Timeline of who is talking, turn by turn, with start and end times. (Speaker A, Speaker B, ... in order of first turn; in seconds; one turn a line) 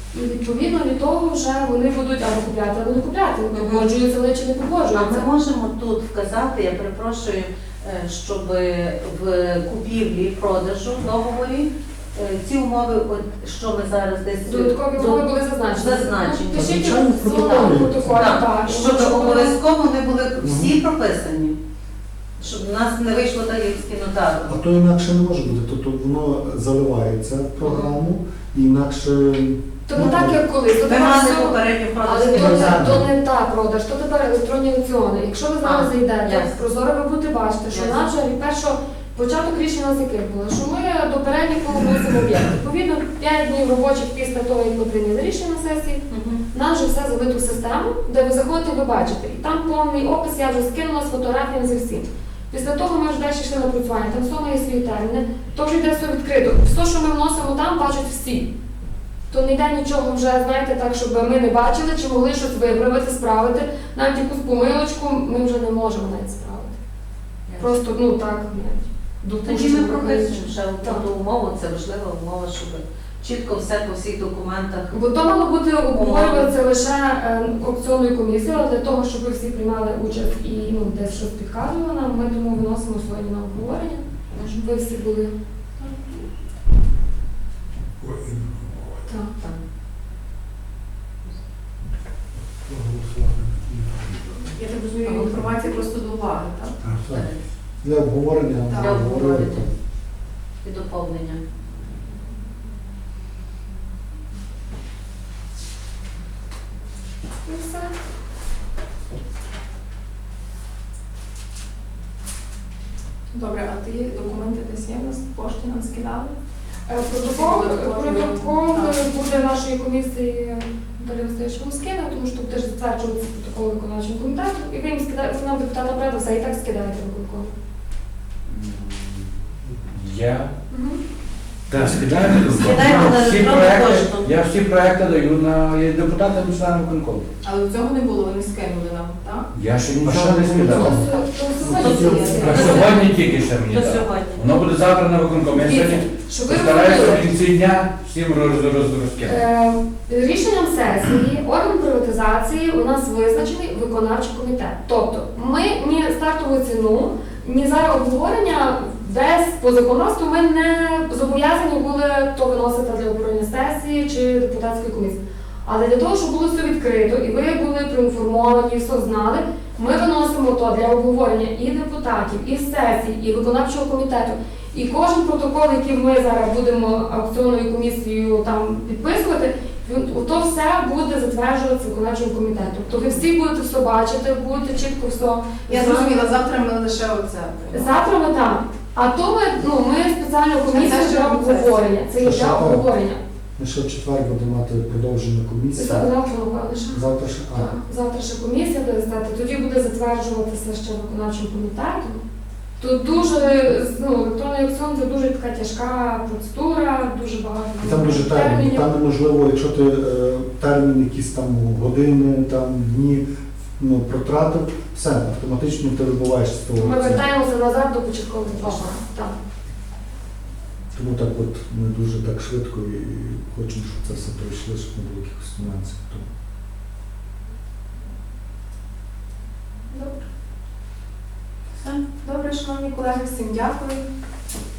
Speaker A: 0.1-5.3
Speaker B: 3.5-3.9
Speaker B: 4.9-21.6
Speaker A: 14.4-19.6
Speaker C: 16.5-18.2
Speaker C: 20.4-20.8
Speaker B: 22.4-24.6
Speaker C: 24.5-30.4
Speaker B: 27.6-27.9
Speaker A: 29.9-58.5
Speaker B: 30.8-33.0
Speaker C: 32.3-33.1
Speaker B: 35.6-36.5
Speaker B: 37.7-38.1
Speaker B: 46.1-46.4
Speaker A: 59.3-66.7
Speaker B: 67.5-67.8
Speaker A: 67.6-71.0
Speaker B: 69.4-75.0
Speaker A: 74.9-85.3
Speaker B: 75.9-76.5
Speaker B: 84.3-84.6
Speaker D: 88.0-89.1
Speaker A: 89.1-89.3
Speaker B: 89.3-89.6
Speaker D: 92.6-94.6
Speaker E: 94.5-96.8
Speaker B: 95.0-95.4
Speaker D: 96.8-97.1
Speaker C: 96.9-97.3
Speaker B: 97.1-97.4
Speaker C: 97.8-99.7
Speaker E: 98.7-99.0
Speaker B: 98.7-99.7
Speaker B: 100.6-101.4
Speaker A: 107.4-107.9
Speaker E: 113.3-116.3
Speaker A: 116.8-127.5
Speaker E: 117.1-119.4
Speaker F: 128.5-129.2
Speaker F: 129.9-130.5
Speaker A: 130.7-131.0
Speaker F: 131.7-137.3
Speaker B: 132.5-134.3
Speaker E: 137.4-139.5
Speaker F: 139.5-141.0
Speaker C: 140.0-141.0
Speaker A: 140.7-143.1
Speaker E: 141.6-143.0
Speaker B: 141.8-143.1
Speaker C: 141.9-142.2
Speaker F: 142.3-149.4
Speaker B: 143.7-144.5
Speaker A: 145.6-147.3
Speaker A: 149.2-186.4
Speaker E: 185.7-187.9
Speaker A: 187.7-193.2
Speaker E: 190.6-192.1
Speaker C: 192.2-192.8
Speaker C: 193.6-196.1
Speaker A: 195.8-202.2
Speaker C: 196.9-197.8
Speaker A: 202.8-208.9
Speaker C: 207.8-213.2
Speaker C: 213.8-217.3
Speaker A: 216.8-219.3
Speaker C: 220.9-226.2
Speaker E: 229.9-230.2
Speaker E: 232.1-234.1